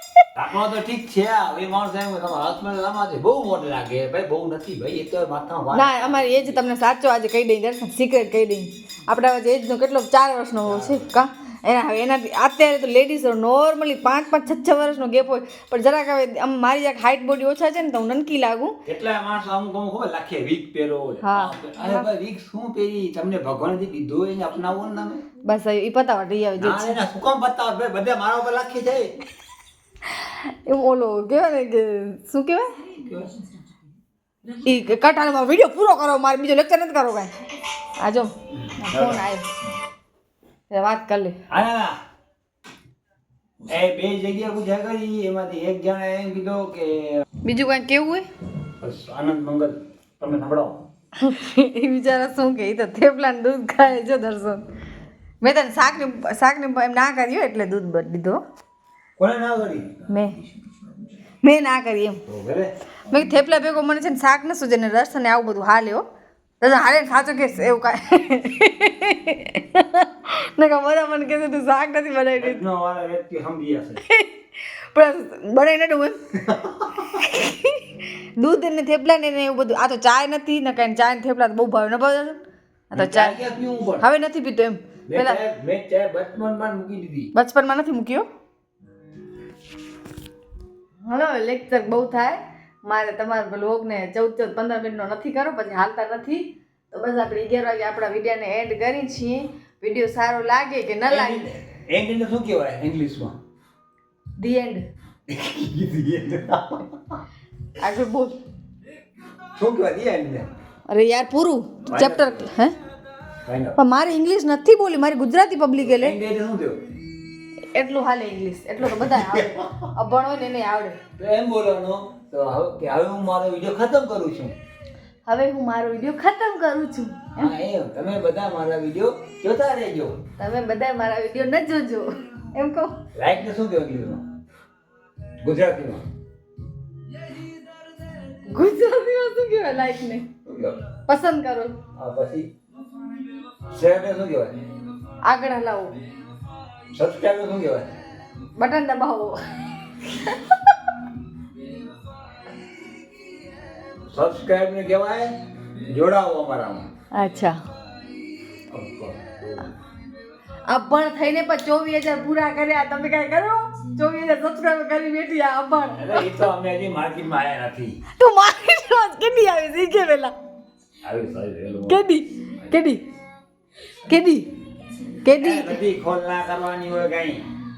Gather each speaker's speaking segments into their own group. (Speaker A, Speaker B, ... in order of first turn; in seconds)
Speaker A: 0.3-6.6, 10.7-11.1, 18.9-25.2, 26.6-29.1, 38.5-39.3, 41.5-42.0, 43.6-47.2, 48.8-50.9, 59.2-59.9, 62.3-62.7, 72.4-74.0, 76.4-77.2, 82.9-84.0, 85.1-87.3, 101.1-103.4, 105.3-107.2, 109.5-110.5, 111.9-112.5, 113.5-113.8, 115.8-116.9, 119.0-119.7, 121.2-124.5, 127.4-130.2, 133.1-134.2, 135.4-136.0, 140.4-140.9, 141.9-142.5, 143.7-144.5, 146.9-147.9, 154.1-156.9, 158.7-159.7, 166.0-168.0, 171.0-172.0, 175.3-177.5
Speaker B: 5.7-18.7, 21.2-22.1, 25.4-27.0, 30.1-32.9, 34.5-37.3, 38.0-39.5, 40.7-41.4, 47.5-48.3, 51.2-54.6, 55.4-58.4, 60.1-60.4, 61.4-62.2, 63.1-66.1, 66.6-72.6, 74.0-76.4, 77.2-82.4, 82.9-83.4, 84.0-85.4, 87.3-88.3, 91.0-101.5, 104.4-104.8, 107.8-108.4, 110.9-112.8, 113.8-116.2, 117.7-121.0, 125.2-127.5, 130.4-133.0, 138.5-140.3, 141.1-141.8, 145.2-146.0, 148.6-149.4, 150.0-150.7, 157.1-157.6, 160.7-166.3, 168.2-170.3, 171.9-173.0, 174.1-174.6, 175.2-175.8